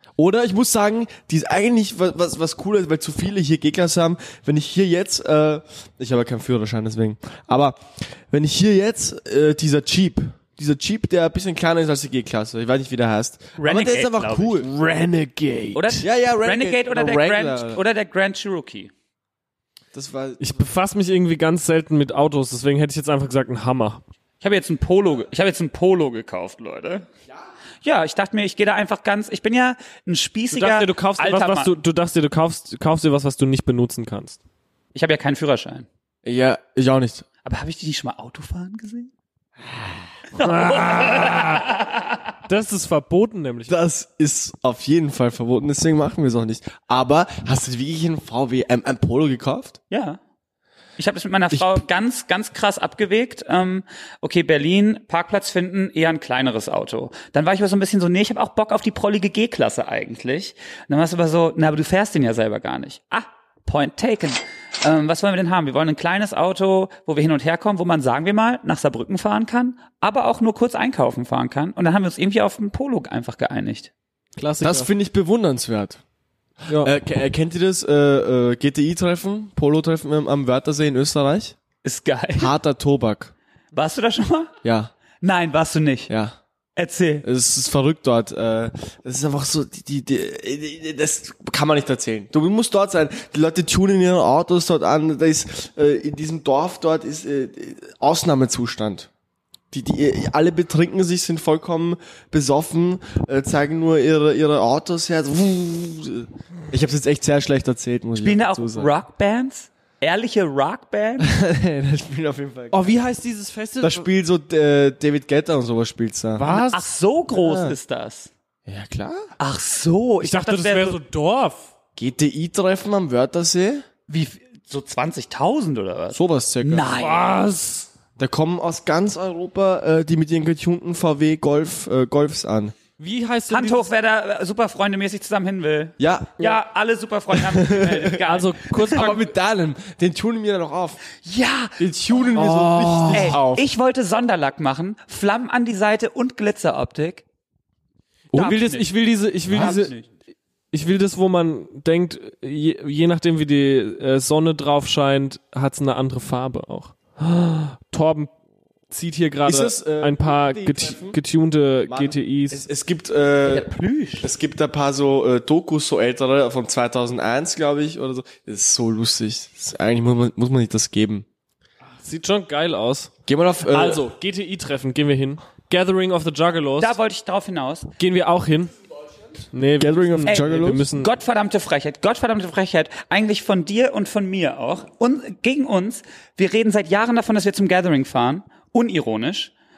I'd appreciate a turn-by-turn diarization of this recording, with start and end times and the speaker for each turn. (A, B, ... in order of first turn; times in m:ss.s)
0:00.2-0:14.7 A
0:13.6-0:14.6 B
0:14.6-0:16.0 C
0:15.7-0:18.9 B
0:16.0-0:17.8 A
0:19.9-0:20.7 A
0:20.4-0:24.0 C
0:24.4-0:27.1 B
0:27.8-0:31.7 B
0:30.5-0:34.4 C
0:35.0-0:35.9 B
0:36.2-0:37.2 A
0:37.4-0:39.1 B
0:40.3-0:42.1 B
0:40.4-0:41.7 C
0:42.5-0:43.8 C
0:43.7-0:49.8 A
0:49.9-0:50.2 B
0:51.0-1:13.9 B
0:51.5-0:51.8 A
1:14.4-1:14.9 C
1:14.6-1:16.0 A
1:16.7-1:21.6 A
1:21.8-1:22.5 B
1:22.4-1:23.3 A
1:23.7-1:24.5 B
1:24.6-1:24.9 A
1:25.2-1:26.1 B
1:26.1-1:26.4 A
1:26.8-1:27.2 B
1:27.2-1:39.1 A
1:39.7-1:48.9 A
1:48.2-1:51.3 B
1:51.2-1:53.0 A
1:52.7-1:54.1 C
1:53.8-1:56.5 A
1:56.4-1:56.8 C
1:56.4-1:58.3 B
1:57.4-1:57.8 A
1:58.7-1:59.3 A
1:59.4-2:01.0 B
2:00.2-2:01.7 C
2:02.0-2:03.8 A
2:04.1-2:07.3 B
2:06.1-2:06.9 A
2:06.9-2:07.9 C
2:08.2-2:12.8 A
2:13.0-2:13.9 C
2:13.5-2:19.0 B
2:16.0-2:16.4 A
2:17.3-2:18.2 A
2:18.2-2:19.2 C
2:18.8-2:21.0 A
2:21.2-2:22.6 B
2:21.8-2:23.6 A
2:22.3-2:23.5 C
2:23.1-2:27.2 B
2:28.3-2:29.9 C
2:28.3-2:28.9 B
2:29.5-2:30.1 B
2:30.7-2:38.3 C
2:38.9-2:42.6 C
2:39.5-2:41.2 A
2:41.9-2:43.7 A
2:43.4-2:44.3 B
2:44.2-2:51.3 A
2:52.0-2:53.1 C
2:53.3-2:54.1 A
2:53.7-2:57.0 C
2:56.8-2:57.9 B
2:58.0-2:58.7 C
2:59.5-3:01.1 C
2:59.8-3:00.9 A
3:00.2-3:09.5 B